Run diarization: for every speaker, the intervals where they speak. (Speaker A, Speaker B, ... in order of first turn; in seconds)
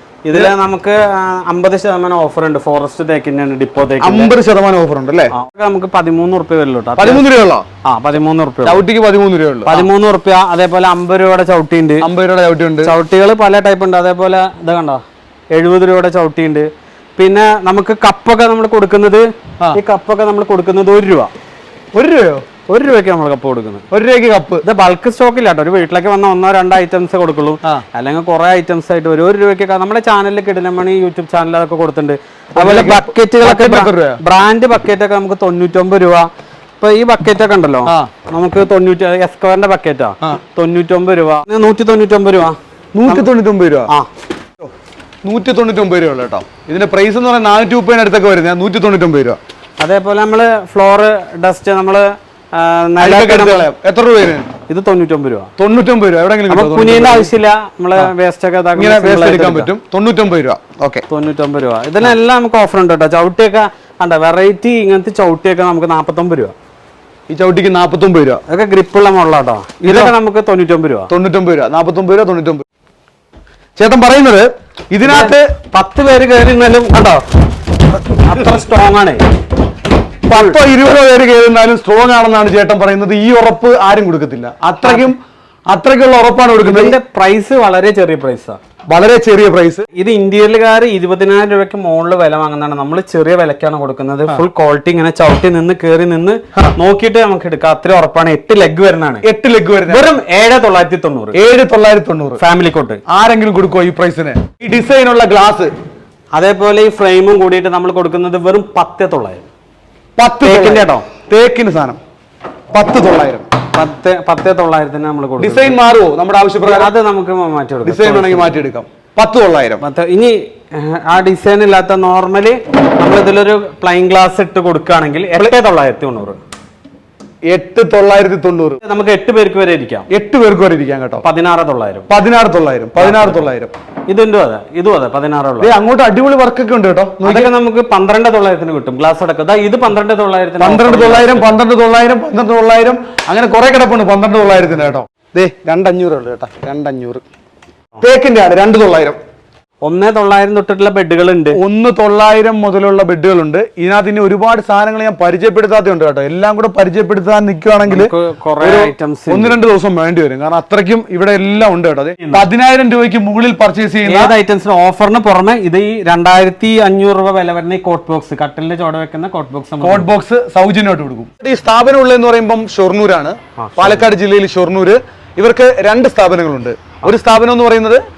Speaker A: 0.2-4.3, 5.3-7.3, 7.8-8.8, 9.7-12.1, 12.8-15.0, 15.5-21.3, 22.7-23.8, 24.6-36.3, 36.8-43.3, 49.8-53.7, 54.7-55.5, 56.5-59.7, 61.1-66.5, 68.5-71.1, 75.0-77.2, 78.1-79.2, 84.8-85.1, 86.6-88.6, 89.9-99.2, 99.9-101.4, 102.4-103.0, 106.3-109.5, 110.4-111.1, 113.7-115.8, 116.6-118.5, 119.8-126.4, 128.8-130.1, 131.2-132.1, 133.0-133.4, 134.1-135.7, 137.2-141.6, 149.8-151.6, 157.9-159.6, 162.2-162.4, 164.1-170.1, 173.6-174.1
Speaker B: 4.0-5.3, 7.0-7.6, 8.6-9.9, 12.0-12.9, 21.9-22.4, 23.9-24.6, 32.5-34.2, 42.9-43.9, 45.2-49.4, 53.0-54.5, 55.6-57.3, 58.7-61.0, 67.3-68.4, 69.8-70.1, 71.1-72.6, 73.8-75.5, 78.1-78.6, 80.3-85.2, 85.7-87.0, 88.9-89.9, 99.2-100.1, 101.3-102.4, 103.1-105.7, 110.2-112.0, 112.7-113.5, 115.4-116.9, 117.8-119.8, 127.5-128.8, 130.1-131.2, 132.1-133.7, 135.6-137.5, 140.6-147.2, 148.0-149.2, 151.5-164.3, 169.8-178.0